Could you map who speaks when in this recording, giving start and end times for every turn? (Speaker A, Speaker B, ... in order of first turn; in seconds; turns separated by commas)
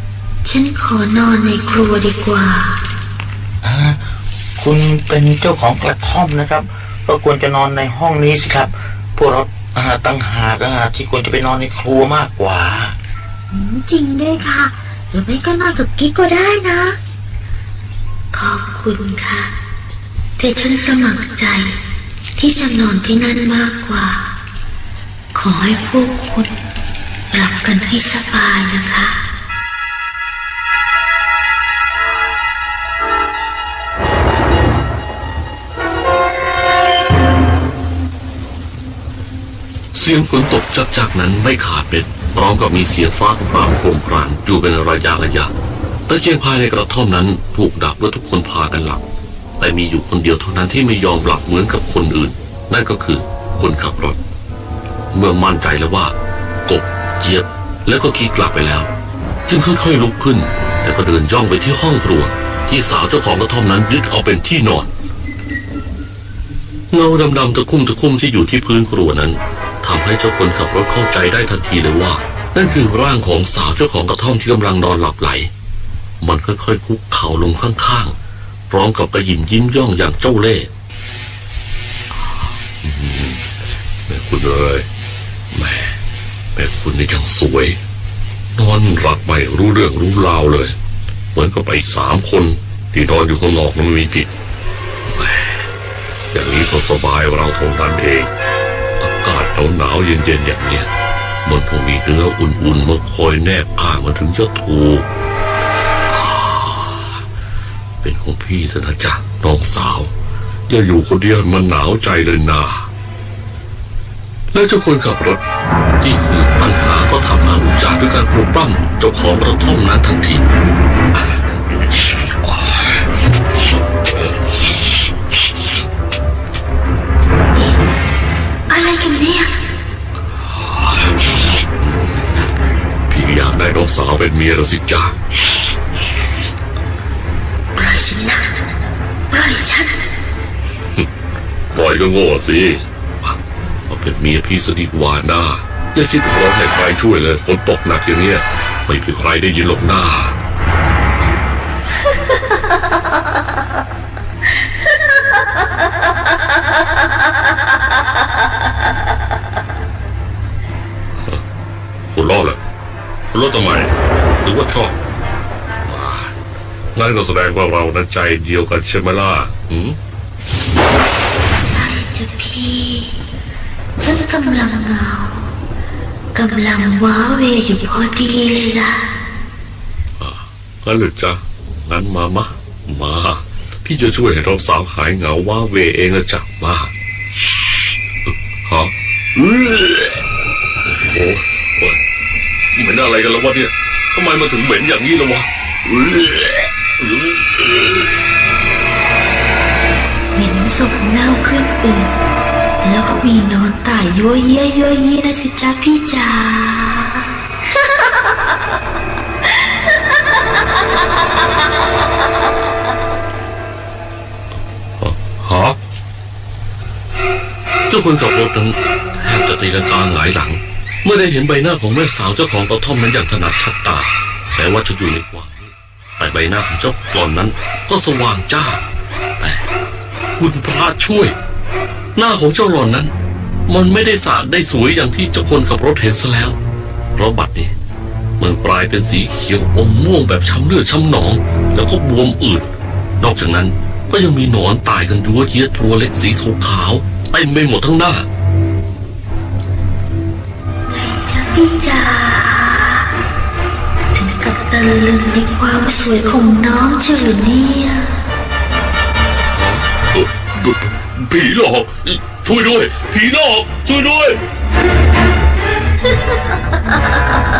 Speaker A: 0.4-2.8, Speaker B: 3.6-4.0, Speaker B: 4.6-12.9, Speaker A: 13.5-17.0, Speaker A: 18.3-19.5, Speaker A: 20.4-21.7, Speaker A: 22.4-24.3, Speaker A: 25.3-26.5, Speaker A: 27.3-29.2, Speaker C: 39.9-45.5, Speaker C: 46.1-49.0, Speaker C: 49.6-54.2, Speaker C: 55.1-56.1, Speaker C: 56.6-58.9, Speaker C: 59.5-64.9, Speaker C: 66.9-75.5, Speaker C: 76.2-78.2, Speaker C: 78.7-80.7, Speaker C: 82.8-83.4, Speaker C: 84.1-84.9, Speaker C: 85.5-86.0, Speaker C: 86.5-87.8, Speaker C: 88.5-90.7, Speaker C: 91.3-94.3, Speaker C: 95.1-95.7, Speaker C: 96.3-98.3, Speaker C: 99.0-100.9, Speaker C: 101.4-105.1, Speaker C: 106.1-107.2, Speaker C: 108.0-110.1, Speaker C: 110.7-112.9, Speaker C: 114.5-115.4, Speaker C: 116.0-120.5, Speaker C: 122.4-122.8, Speaker A: 128.7-129.6, Speaker C: 130.4-131.1, Speaker C: 131.8-132.3, Speaker C: 133.1-135.1, Speaker A: 137.8-138.5, Speaker A: 139.3-140.0, Speaker C: 141.7-150.3, Speaker C: 162.1-162.6, Speaker C: 163.3-165.0, Speaker C: 165.8-166.4, Speaker C: 166.9-170.0, Speaker A: 171.6-173.2, Speaker A: 174.0-175.5, Speaker A: 176.3-179.1, Speaker C: 180.2-186.9, Speaker C: 188.6-190.2, Speaker C: 191.0-192.0, Speaker C: 192.7-198.1, Speaker A: 200.3-202.1, Speaker A: 202.8-208.1, Speaker C: 215.0-215.8, Speaker C: 217.9-228.8, Speaker C: 229.4-229.6, Speaker C: 230.3-231.3, Speaker C: 232.1-233.1, Speaker C: 233.7-236.6, Speaker C: 237.1-237.7, Speaker C: 238.4-248.2, Speaker A: 250.9-253.1, Speaker A: 254.1-258.1, Speaker C: 259.5-264.4